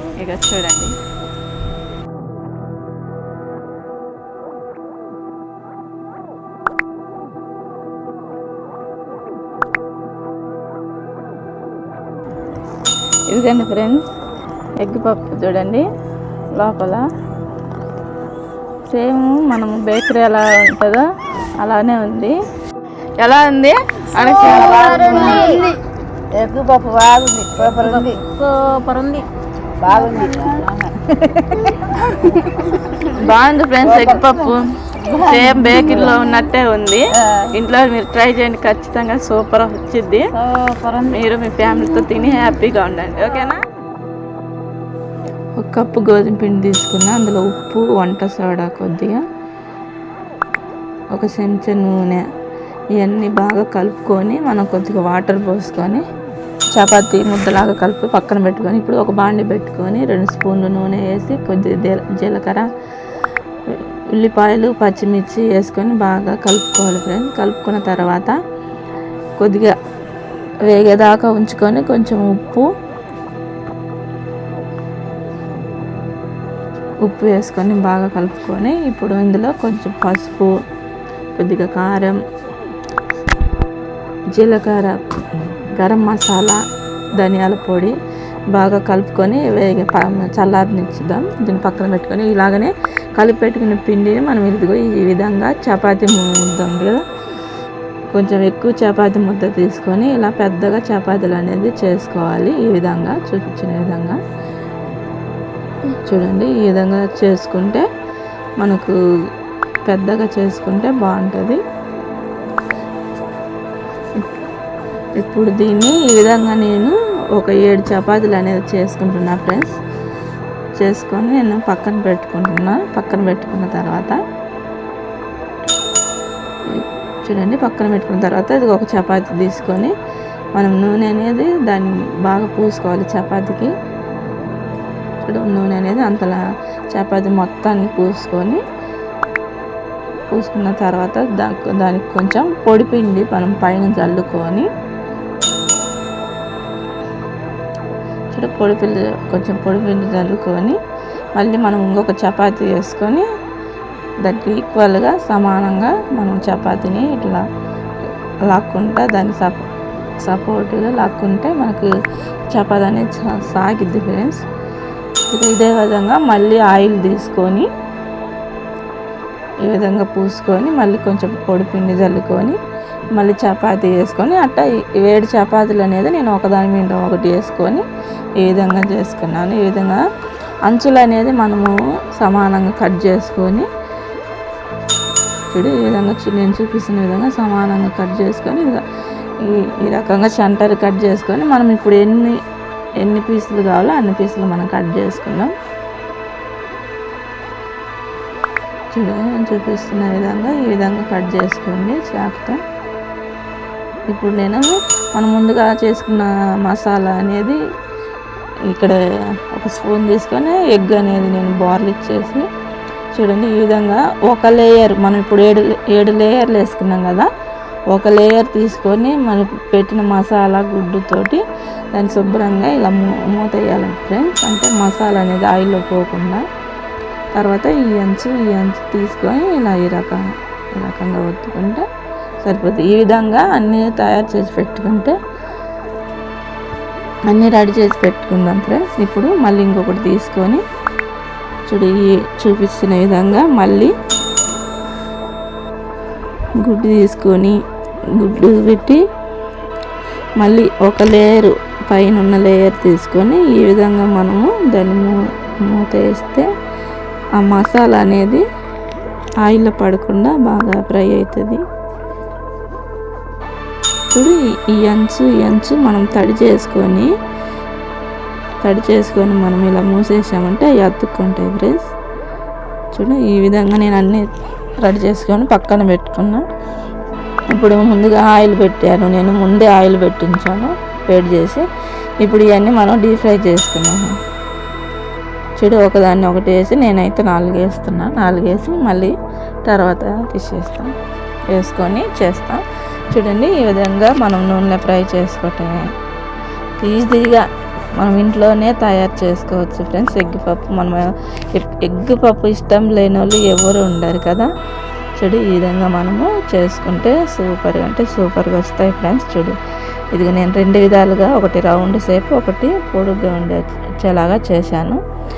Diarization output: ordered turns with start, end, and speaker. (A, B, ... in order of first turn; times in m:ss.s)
0:00.2-0:01.0 A
0:13.3-0:14.1 A
0:14.8-0:15.8 A
0:16.5-0:17.1 A
0:18.9-0:21.0 A
0:21.6-0:22.4 A
0:23.2-0:25.6 A
0:24.4-0:25.8 B
0:24.5-0:25.7 C
0:26.4-0:28.2 B
0:27.6-0:29.3 C
0:29.8-0:31.0 B
0:29.9-0:31.0 C
0:31.5-0:32.2 B
0:33.0-0:40.3 A
0:33.8-0:36.2 B
0:35.1-0:36.2 C
0:40.4-0:41.2 C
0:41.0-0:43.6 A
0:41.7-0:42.2 C
0:45.6-0:49.2 A
0:51.1-0:52.2 A
0:53.0-0:56.0 A
0:56.7-1:02.7 A
1:03.7-1:08.3 A
1:09.4-1:09.8 A
1:10.7-1:12.7 A
1:17.0-1:20.5 A
1:21.4-1:22.2 A
1:24.3-1:26.6 A
1:27.2-1:28.0 A
1:28.5-1:37.0 A
1:38.1-1:44.2 A
1:45.9-1:47.8 A
1:48.6-1:49.0 A
1:49.9-1:51.6 A
1:55.2-1:59.8 A
2:00.8-2:04.2 A
2:06.7-2:09.9 A
2:10.6-2:13.7 A
2:15.2-2:16.4 A
2:16.9-2:18.6 A
2:20.3-2:24.7 A
2:28.3-2:30.8 A
2:31.4-2:33.3 A
2:34.2-2:37.4 A
2:38.5-2:39.7 A
2:40.2-2:41.9 A
2:42.5-2:44.4 A
2:45.3-2:47.7 A
2:49.6-2:52.6 A
2:53.2-2:57.8 A
2:58.4-3:00.0 A
3:00.7-3:03.7 A
3:05.5-3:08.8 A
3:09.4-3:12.4 A
3:13.0-3:15.5 A
3:18.9-3:22.6 A
3:24.1-3:27.6 A
3:28.7-3:29.0 A
3:29.5-3:32.5 A
3:33.1-3:37.3 A
3:37.9-3:41.4 A
3:41.9-3:46.4 A
3:47.3-3:50.2 A
3:50.8-3:51.8 A
3:52.4-3:55.2 A
3:57.3-4:00.6 A
4:01.7-4:03.9 A
4:06.6-4:07.6 A
4:08.2-4:09.0 A
4:10.4-4:16.5 A
4:17.4-4:18.4 A
4:19.4-4:21.6 A
4:24.1-4:27.1 A
4:28.6-4:31.9 A
4:32.9-4:34.3 A
4:34.8-4:36.5 A
4:37.5-4:41.7 A
4:42.2-4:44.1 A
4:45.6-4:49.1 A
4:49.6-4:50.9 A
4:51.5-4:55.9 A
4:56.8-4:57.4 A
4:58.0-5:04.5 A
5:05.2-5:09.6 A
5:10.1-5:15.0 A